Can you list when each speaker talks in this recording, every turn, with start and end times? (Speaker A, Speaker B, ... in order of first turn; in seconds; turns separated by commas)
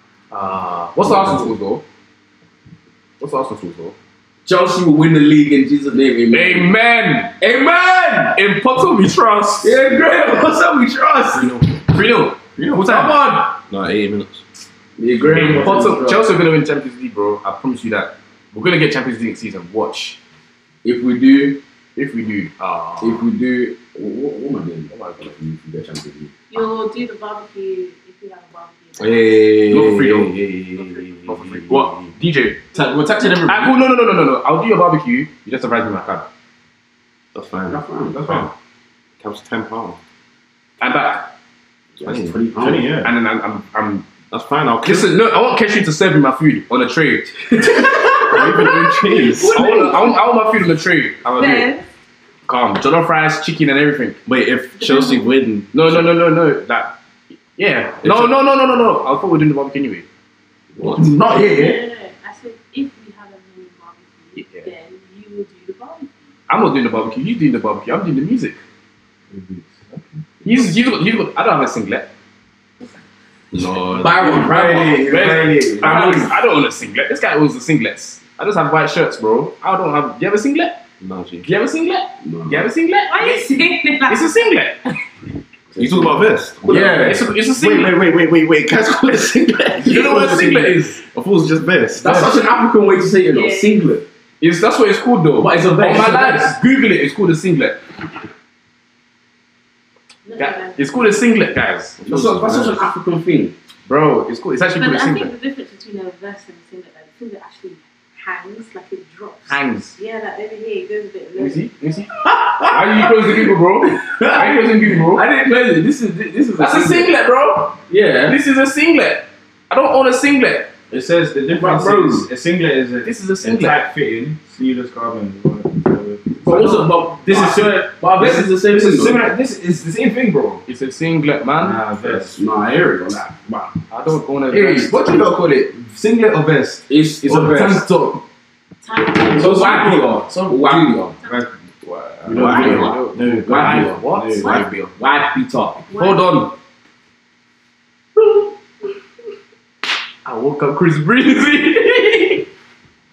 Speaker A: 0.3-1.8, Speaker A: 3.2-4.0, Speaker B: 4.5-6.7, Speaker A: 6.3-7.4, Speaker B: 7.4-8.4, Speaker A: 8.3-9.8, Speaker B: 9.6-11.5, Speaker C: 11.3-11.8, Speaker A: 11.9-13.3, Speaker B: 12.9-13.5, Speaker C: 13.0-14.4, Speaker B: 15.0-16.3, Speaker A: 15.2-20.2, Speaker C: 15.3-15.7, Speaker B: 20.8-21.6, Speaker A: 22.0-23.3, Speaker B: 23.0-26.3, Speaker A: 24.9-25.4, Speaker D: 26.5-29.9, Speaker C: 29.0-32.1, Speaker A: 29.7-30.4, Speaker D: 30.8-31.1, Speaker A: 31.3-32.6, Speaker B: 32.7-33.8, Speaker A: 33.5-36.3, Speaker C: 37.3-38.5, Speaker B: 37.7-38.2, Speaker E: 38.1-38.5, Speaker C: 39.2-40.0, Speaker A: 40.8-41.3, Speaker B: 42.0-42.9, Speaker C: 42.0-43.0, Speaker E: 42.6-43.1, Speaker A: 43.0-44.2, Speaker C: 44.3-45.1, Speaker A: 44.8-48.6, Speaker C: 48.2-49.6, Speaker E: 48.3-49.5, Speaker A: 49.4-51.7, Speaker D: 49.7-49.9, Speaker D: 51.4-51.9, Speaker A: 52.5-54.2, Speaker C: 54.3-56.1, Speaker D: 54.8-55.4, Speaker A: 55.7-57.0, Speaker A: 57.6-60.1, Speaker C: 58.0-58.4, Speaker C: 60.8-61.3, Speaker E: 61.0-61.8, Speaker D: 61.2-66.3, Speaker A: 64.4-64.7, Speaker A: 66.5-68.6, Speaker E: 69.3-70.2, Speaker A: 70.4-72.1, Speaker C: 73.5-74.3, Speaker B: 73.9-75.2, Speaker E: 74.1-76.3, Speaker A: 74.9-80.8, Speaker B: 75.8-76.3, Speaker C: 81.0-81.5, Speaker A: 81.4-84.9, Speaker B: 82.2-82.7, Speaker D: 83.1-84.4, Speaker B: 85.8-86.2, Speaker C: 85.8-92.3, Speaker E: 86.6-87.2, Speaker A: 86.7-88.1, Speaker A: 89.8-91.0, Speaker B: 92.0-94.0, Speaker D: 93.3-93.8, Speaker A: 94.4-97.8, Speaker B: 95.4-96.5, Speaker D: 100.3-101.3, Speaker A: 100.4-102.9, Speaker B: 102.0-103.5, Speaker A: 103.9-105.3, Speaker D: 104.8-111.7, Speaker A: 109.5-110.0, Speaker A: 111.4-115.2, Speaker B: 112.2-117.1, Speaker A: 116.6-120.7, Speaker B: 117.9-118.4, Speaker E: 120.9-130.6, Speaker A: 121.5-122.3, Speaker A: 123.0-123.9, Speaker A: 126.4-126.9, Speaker B: 126.5-129.2, Speaker A: 130.7-131.9, Speaker E: 131.6-132.4, Speaker B: 132.1-133.8, Speaker A: 133.9-135.0, Speaker E: 134.5-138.2, Speaker B: 136.9-137.9, Speaker D: 138.8-139.9, Speaker B: 139.2-141.2, Speaker E: 139.3-140.4, Speaker A: 140.3-141.0, Speaker E: 141.2-141.5, Speaker A: 141.8-144.9, Speaker E: 142.2-144.7, Speaker D: 142.4-142.9, Speaker B: 142.4-144.0, Speaker D: 144.4-144.7, Speaker B: 144.8-145.9, Speaker D: 145.9-146.4, Speaker A: 146.0-146.6, Speaker A: 150.2-152.5